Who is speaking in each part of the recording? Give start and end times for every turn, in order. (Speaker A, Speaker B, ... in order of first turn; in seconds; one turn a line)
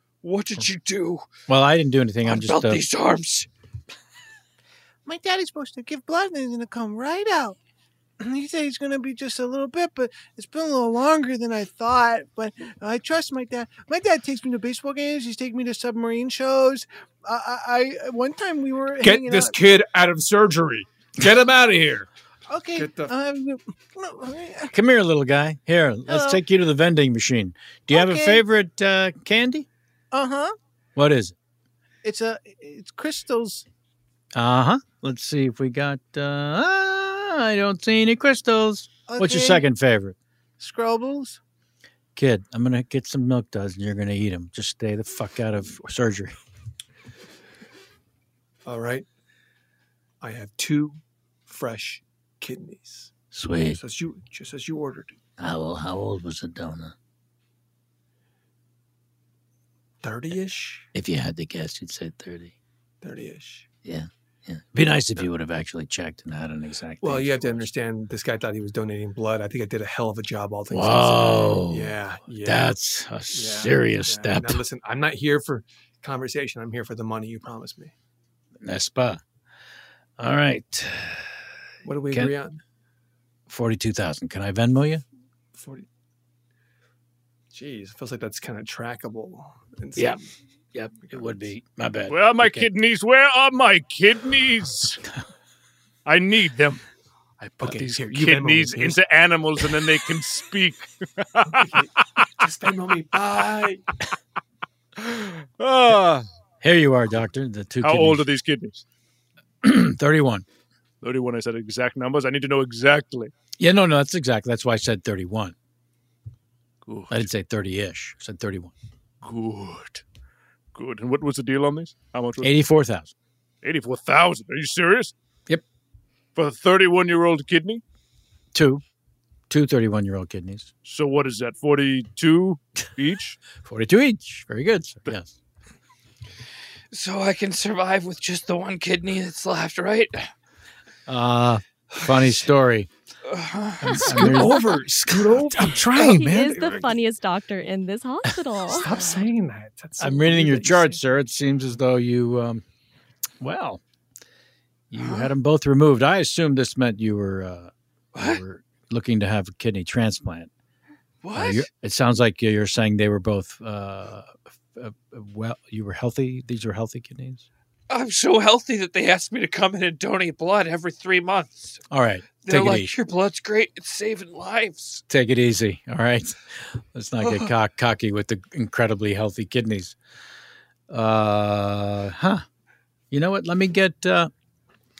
Speaker A: 0.2-1.2
Speaker B: 1.5-2.8
Speaker A: 2.2-3.5
Speaker C: 5.0-7.5
Speaker C: 8.2-19.6
Speaker D: 19.0-22.1
Speaker C: 22.5-24.7
Speaker D: 22.7-23.1
Speaker B: 24.7-29.6
Speaker C: 26.1-26.4
Speaker C: 27.9-28.4
Speaker C: 30.1-30.5
Speaker B: 30.9-31.3
Speaker C: 32.0-33.6
Speaker B: 34.3-40.1
Speaker C: 39.1-39.6
Speaker C: 40.6-41.4
Speaker B: 42.1-46.3
Speaker D: 48.6-49.0
Speaker D: 50.2-53.1
Speaker B: 53.3-53.8
Speaker D: 53.7-55.1
Speaker B: 55.4-56.9
Speaker D: 60.0-60.9
Speaker B: 60.9-62.5
Speaker D: 63.0-63.7
Speaker B: 63.8-67.6
Speaker D: 67.0-72.7
Speaker B: 70.7-74.6
Speaker D: 73.3-77.9
Speaker B: 78.6-79.2
Speaker B: 80.2-81.3
Speaker D: 81.8-82.6
Speaker B: 83.5-85.0
Speaker D: 85.5-85.9
Speaker D: 87.5-90.3
Speaker B: 90.7-92.7
Speaker D: 91.0-91.5
Speaker E: 92.1-95.0
Speaker E: 96.0-96.8
Speaker E: 97.4-101.8
Speaker D: 97.6-99.0
Speaker D: 101.5-103.8
Speaker E: 105.0-106.2
Speaker B: 106.6-108.3
Speaker E: 107.8-108.8
Speaker B: 109.6-110.4
Speaker E: 111.0-113.3
Speaker B: 113.6-115.5
Speaker E: 116.8-117.3
Speaker B: 117.1-118.7
Speaker E: 119.2-120.0
Speaker E: 120.7-122.5
Speaker B: 122.4-123.1
Speaker E: 123.6-125.1
Speaker E: 126.3-127.8
Speaker B: 128.5-128.8
Speaker B: 129.5-130.7
Speaker E: 130.8-133.4
Speaker B: 133.6-135.3
Speaker A: 136.9-140.2
Speaker B: 141.1-142.9
Speaker A: 143.3-144.0
Speaker B: 143.8-144.7
Speaker F: 143.8-144.7
Speaker D: 144.1-146.9
Speaker F: 145.9-148.9
Speaker D: 148.7-151.0
Speaker B: 150.0-152.6
Speaker B: 153.4-153.8
Speaker B: 154.9-160.5
Speaker A: 155.0-155.3
Speaker A: 161.2-161.6
Speaker B: 161.3-167.4
Speaker A: 167.9-171.8
Speaker B: 171.9-172.9
Speaker A: 172.4-175.0
Speaker B: 175.1-176.4
Speaker B: 176.9-179.9
Speaker B: 180.9-182.4
Speaker B: 183.1-184.3